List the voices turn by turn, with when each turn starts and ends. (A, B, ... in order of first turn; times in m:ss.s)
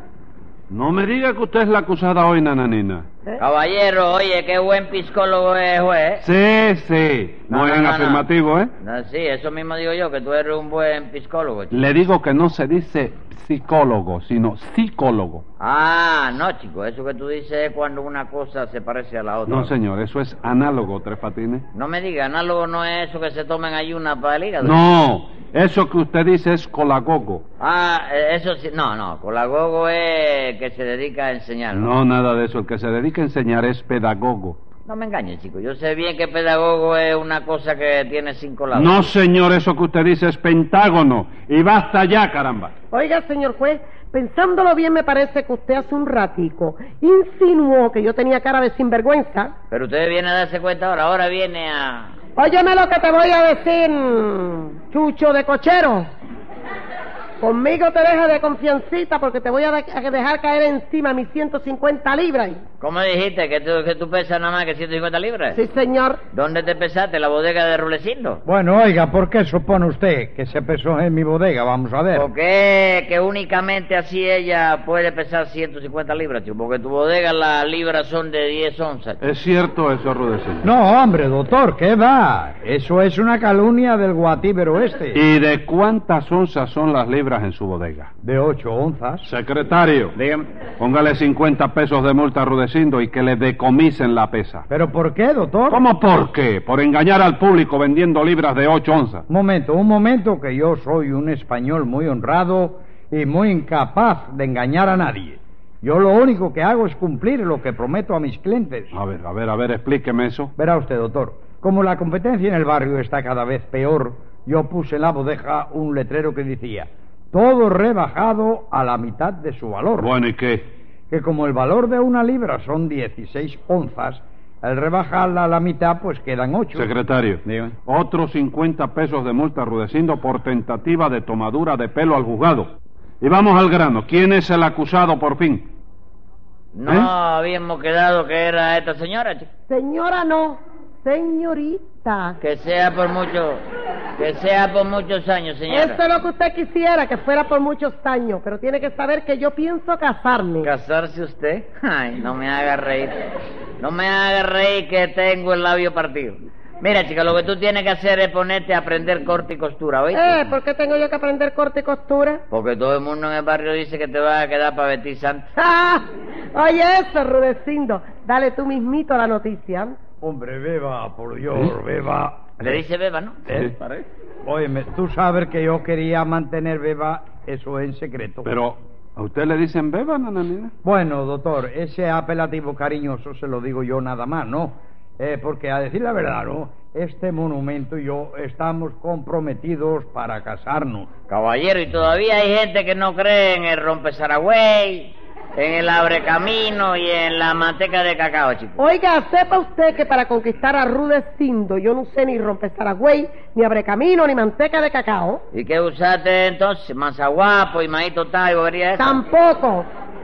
0:00.7-0:03.1 A
0:03.4-0:06.2 B
0:06.2-0:08.7 A
0:07.5-0:08.3 B
0:08.8-0:11.8 B
0:11.7-0:15.4 A
0:15.6-0:19.7 B
0:19.4-0:21.7 A
0:21.8-0:24.8 B
0:24.6-0:27.4 A
0:27.6-0:31.9 B
0:31.7-0:34.6 A
0:34.9-0:39.0 B
0:38.7-0:42.7 A
0:42.9-0:49.5 C
0:49.7-0:52.2 B
0:52.4-0:56.1 C
0:57.4-1:02.6 C
1:02.8-1:05.6 B
1:05.5-1:06.2 C
1:06.3-1:08.4 B
1:08.4-1:12.3 D
1:12.1-1:19.2 B
1:19.2-1:20.7 A
1:20.6-1:25.2 D
1:25.1-1:28.1 A
1:28.2-1:29.3 D
1:29.2-1:30.2 A
1:30.8-1:34.6 A
1:34.7-1:35.8 D
1:35.7-1:39.2 A
1:39.3-1:49.0 D
1:48.9-1:50.5 A
1:50.6-2:00.1 D
2:00.0-2:00.6 A
2:01.1-2:06.9 D
2:06.8-2:15.7 A
2:16.8-2:19.5 B
2:16.9-2:17.1 A
2:19.7-2:22.4 C
2:22.4-2:23.6 B
2:24.2-2:26.0 B
2:25.7-2:30.7 C
2:30.6-2:33.1 B
2:33.8-2:40.4 B
2:40.1-2:42.4 C
2:42.5-2:45.5 B
2:45.6-2:50.0 C
2:50.2-2:52.8 D
2:52.6-2:53.4 B
2:53.5-2:53.7 A
2:54.4-2:58.5 D
2:58.4-3:00.7 A
3:00.8-3:11.1 D
3:11.3-3:18.8 B
3:18.8-3:25.4 C
3:25.5-3:29.2 B
3:29.0-3:29.9 C